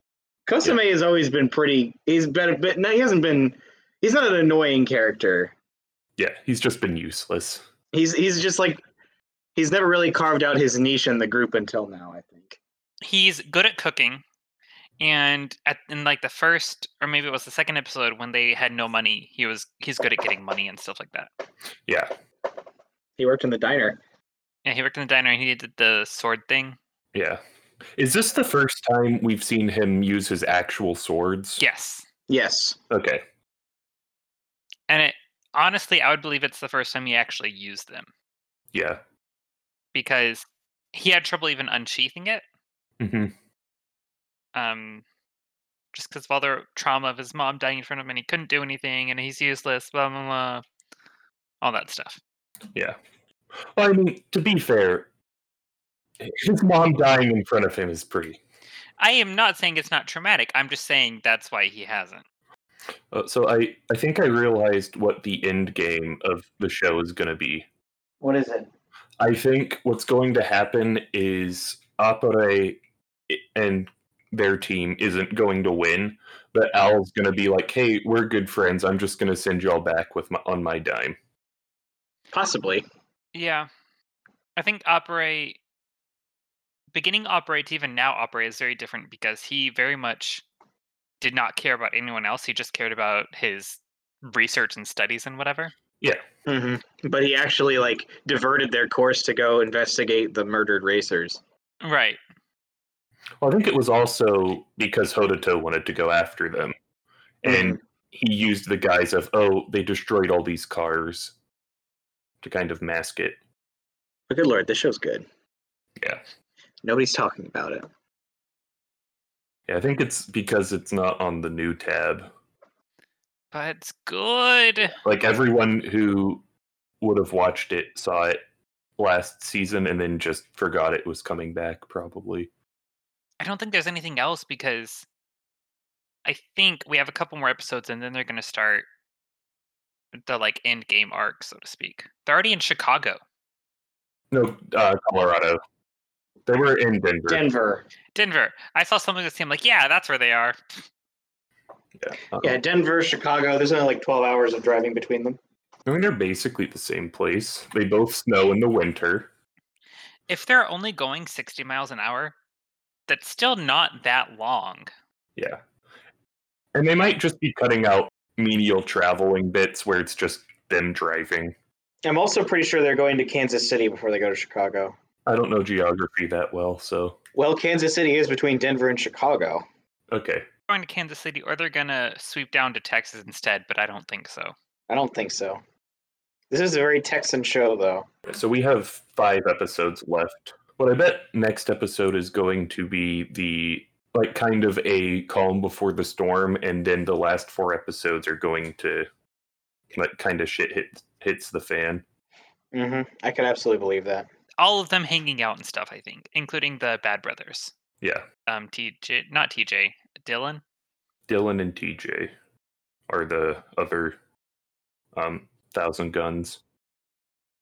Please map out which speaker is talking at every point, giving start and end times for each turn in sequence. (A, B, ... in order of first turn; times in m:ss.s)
0:00.5-0:05.5 A
0:06.2-0:07.6 B
0:07.9-0:08.8 A
0:09.6-0:12.6 A
0:13.0-0:14.2 C
0:15.0-0:21.3 C
0:21.8-0:22.1 B
0:23.2-0:24.0 A
0:24.6-0:26.8 C
0:27.1-0:27.4 B
0:27.9-0:31.6 B
0:31.6-0:32.0 C
0:32.3-0:32.8 A
0:32.9-0:33.2 B
0:34.9-0:38.1 C
0:38.7-0:39.0 B
0:39.9-0:42.4 C
0:43.0-0:43.3 B
0:44.5-0:45.0 C
0:45.9-0:50.6 C
0:51.6-0:52.2 C
0:53.7-0:55.1 B
0:56.2-0:58.4 B
0:59.0-1:02.2 C
1:03.1-1:07.7 B
1:08.2-1:08.7 A
1:09.2-1:21.2 B
1:22.3-1:22.8 A
1:23.3-1:23.7 C
1:24.6-1:25.6 C
1:26.9-1:30.4 C
1:31.2-1:35.7 C
1:36.4-1:41.4 A
1:41.8-1:42.2 C
1:43.4-1:46.8 B
1:47.4-1:51.3 B
1:47.4-1:47.8 A
1:52.4-1:53.4 B
1:54.3-1:55.2 A
1:56.8-1:57.9 A
1:59.7-2:02.3 B
2:03.5-2:05.0 C
2:05.0-2:06.4 B
2:07.0-2:08.4 B
2:09.0-2:12.5 B
2:13.4-2:15.0 C
2:16.2-2:18.8 C
2:20.2-2:23.2 C
2:24.3-2:25.6 B
2:26.5-2:27.4 B
2:27.3-2:27.8 A
2:28.1-2:30.8 C
2:32.0-2:32.6 B
2:32.4-2:35.4 A
2:35.8-2:39.3 B
2:40.3-2:42.3 C
2:43.1-2:44.9 C
2:45.4-2:45.6 B
2:46.7-2:51.5 B
2:52.0-2:54.9 A
2:55.2-2:57.2 B
2:57.4-2:59.6 A
3:00.1-3:00.4 B
3:00.7-3:04.5 C
3:04.9-3:05.6 A
3:06.5-3:08.1 A
3:08.3-3:19.1 B
3:19.9-3:22.0 B
3:22.7-3:24.3 A
3:24.6-3:27.7 C
3:28.5-3:30.6 C
3:31.3-3:32.3 B
3:33.1-3:34.2 B
3:35.1-3:36.6 B